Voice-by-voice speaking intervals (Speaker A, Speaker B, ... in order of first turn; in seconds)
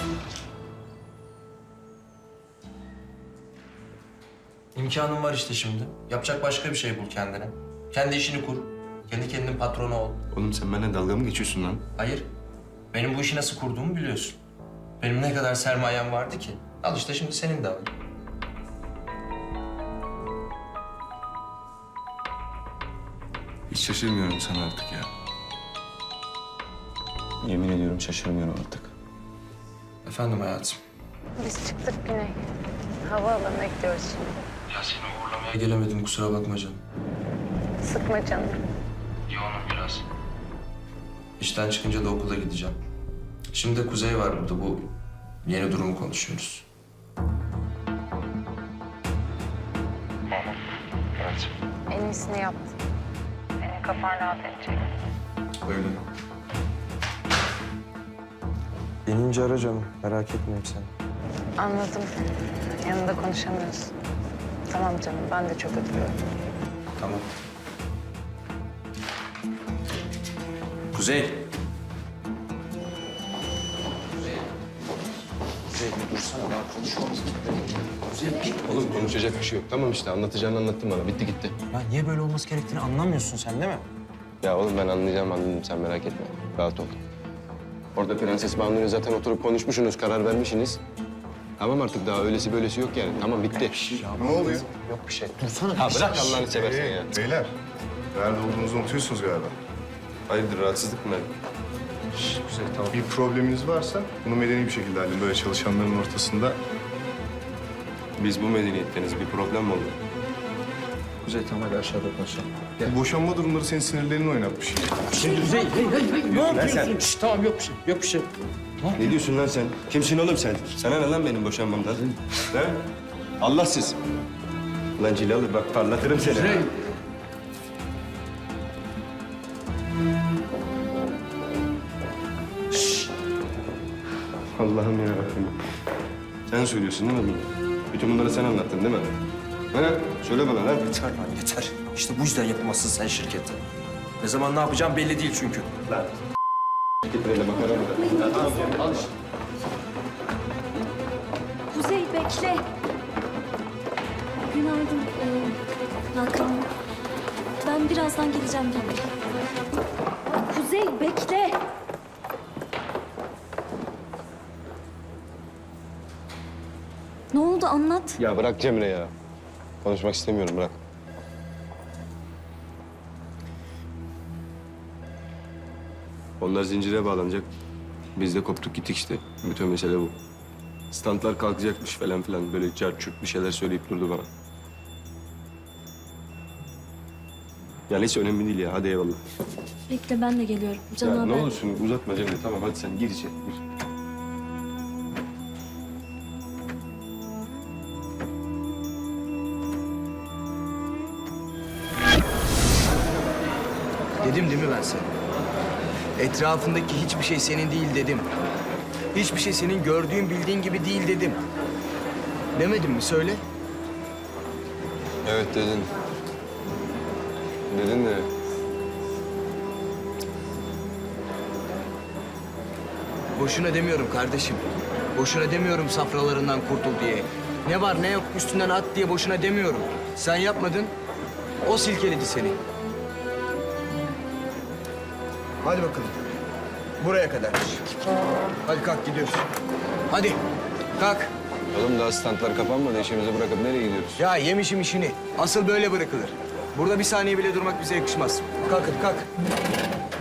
Speaker A: 4.7-10.2, 11.9-12.3, 12.9-14.4, 15.0-17.9, 30.0-30.8, 34.7-36.8, 39.3-40.0, 41.4-42.8, 43.5-46.6, 51.2-51.5, 59.0-60.9, 67.0-67.3, 70.9-71.5, 75.7-79.2, 81.7-83.8, 93.5-96.5, 102.1-103.0, 111.2-113.0, 115.1-119.2, 126.4-126.6, 140.8-143.6, 144.2-145.7
Speaker B: 10.3-11.8, 23.7-25.1, 27.4-28.9, 96.0-96.9, 98.1-98.8, 100.3-101.3, 103.2-106.5, 108.2-110.0, 114.3-114.5, 116.3-117.0, 119.0-122.9, 123.4-124.0, 125.0-126.6, 134.6-135.5, 136.5-139.1, 139.7-140.8, 147.1-148.8, 176.4-177.5, 178.2-180.1, 180.9-184.3, 187.9-189.2, 190.9-193.6
Speaker C: 31.4-32.4, 33.0-34.3, 37.8-38.6, 51.9-52.8, 53.6-54.9, 61.6-62.1, 62.8-63.9, 64.7-66.2
Speaker D: 78.7-81.5, 84.4-87.0, 88.0-90.8, 91.6-94.0, 95.8-97.1, 147.7-148.5, 168.2-169.1, 169.8-170.8, 215.2-215.9, 217.7-218.3, 241.7-244.2
Speaker E: 94.2-94.6, 97.1-97.5, 98.4-99.5, 103.7-104.2, 105.0-106.5, 112.8-114.9
Speaker F: 147.5-148.6, 151.7-152.6, 154.4-155.6, 156.1-156.7, 157.6-159.1, 160.3-161.6, 167.3-168.2, 189.9-191.6
Speaker G: 204.2-205.1, 206.2-208.3, 209.1-211.4, 212.5-213.4, 223.3-230.9, 231.6-232.6, 235.6-236.1, 237.0-237.8, 238.6-239.4, 240.1-240.4, 241.0-241.3, 244.2-249.3